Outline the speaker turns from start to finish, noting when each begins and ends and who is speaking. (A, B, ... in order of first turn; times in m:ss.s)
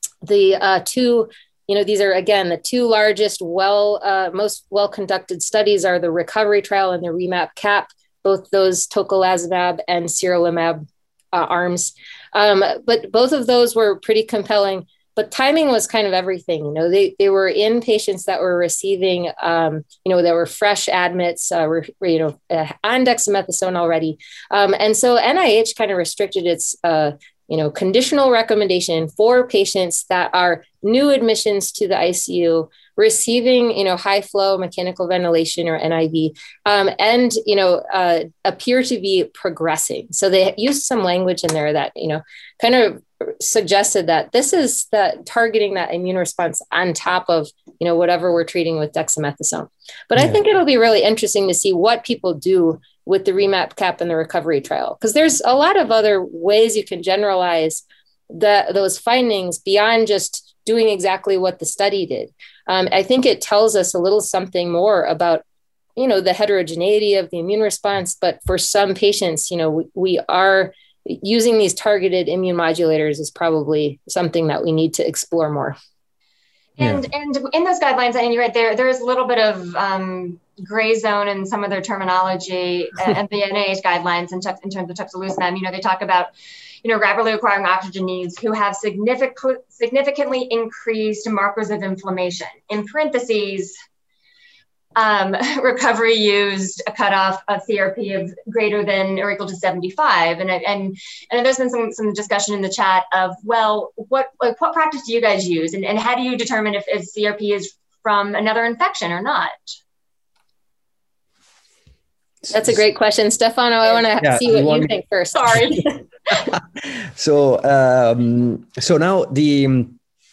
0:00.2-1:05.4 A
1:06.0-1:15.8 A
1:16.8-1:26.3 B
1:26.8-1:33.7 B
1:35.0-1:49.8 B
1:52.5-1:52.8 C
1:52.5-1:55.9 A
1:54.2-1:54.9 C
1:55.3-1:55.9 B
1:56.3-2:00.0 C